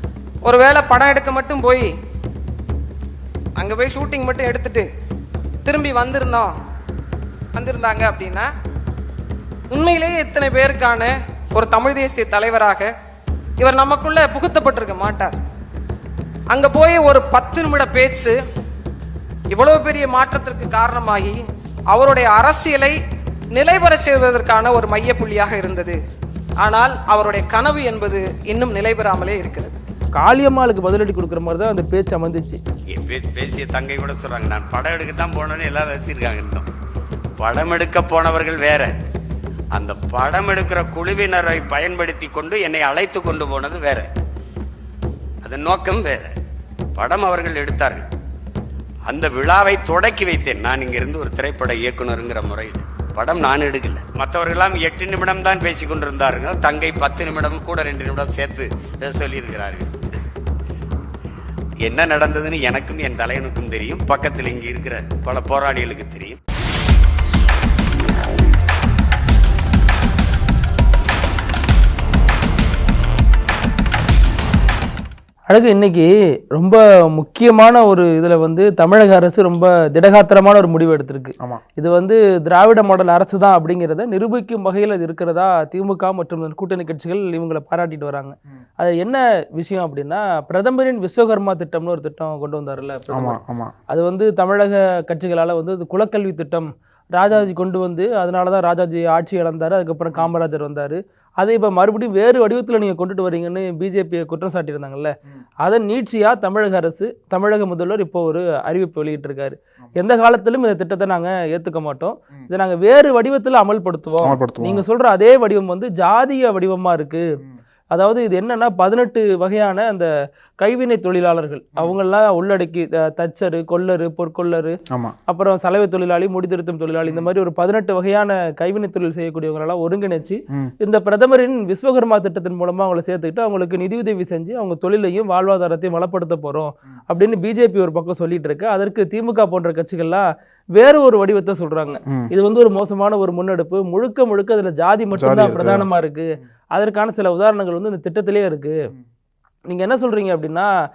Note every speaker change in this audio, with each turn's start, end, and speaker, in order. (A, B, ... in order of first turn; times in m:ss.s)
0:00.4-0:01.8 A
0:03.6-0:04.8 A
0:05.7-0:06.5 A
0:07.6-0:08.4 A
0:09.7-0:12.8 A
0:13.6-0:15.3 A
0:16.5-0:18.3 A
0:19.5-0:21.3 A
0:22.0-0:22.9 A
0:23.6-0:25.9 A
0:26.6-0:29.7 A
0:30.1-0:32.6 B
0:32.9-0:36.7 C
0:37.4-0:38.9 C
0:39.7-0:44.1 C
0:45.4-0:46.3 C
0:47.0-0:48.0 C
0:49.1-0:59.9 C
1:01.8-1:06.4 C
1:15.5-1:33.4 B
1:33.1-1:33.7 D
1:33.9-1:57.4 B
1:54.2-1:54.8 D
1:57.9-2:00.1 B
2:00.6-2:04.8 B
2:04.9-2:05.2 D
2:05.3-2:28.9 B
2:25.1-2:25.9 D
2:29.7-2:30.7 B